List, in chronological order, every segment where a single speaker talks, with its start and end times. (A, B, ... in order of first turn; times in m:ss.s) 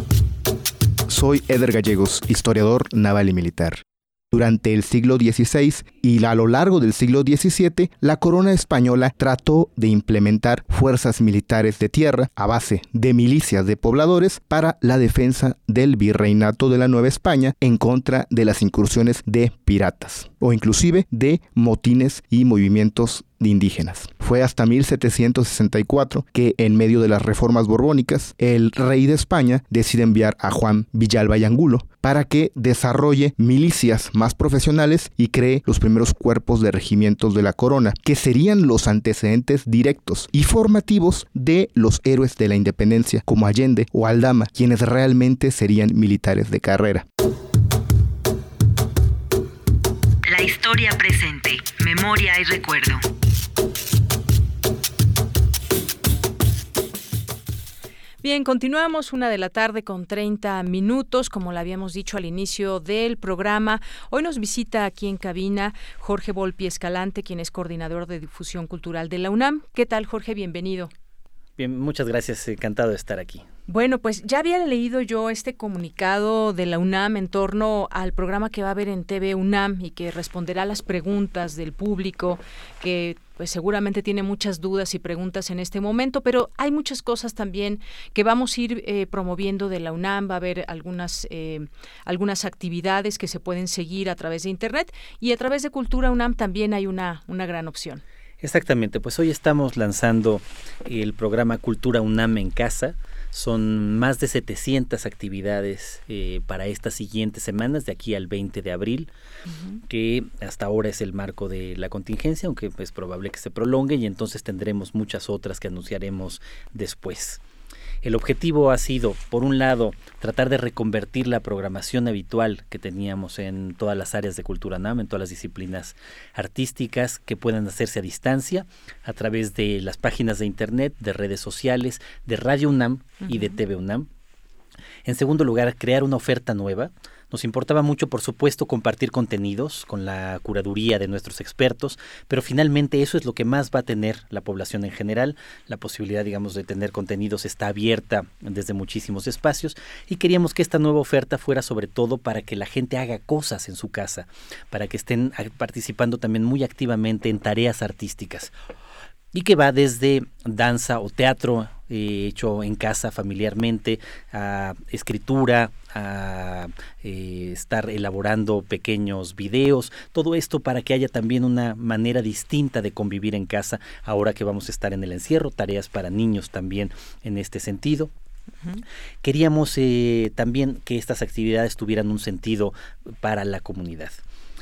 0:01.1-0:47.0 A
0:50.3-0:53.0 B
0:58.2-1:10.9 C
1:11.6-1:13.5 D
1:13.7-1:38.0 C
1:38.4-1:49.1 D
1:49.5-1:49.8 C
1:49.9-1:57.4 D
1:58.0-2:14.1 D
2:13.2-2:13.6 C
2:15.0-2:38.5 D
2:39.3-2:58.1 D
2:59.2-3:04.2 D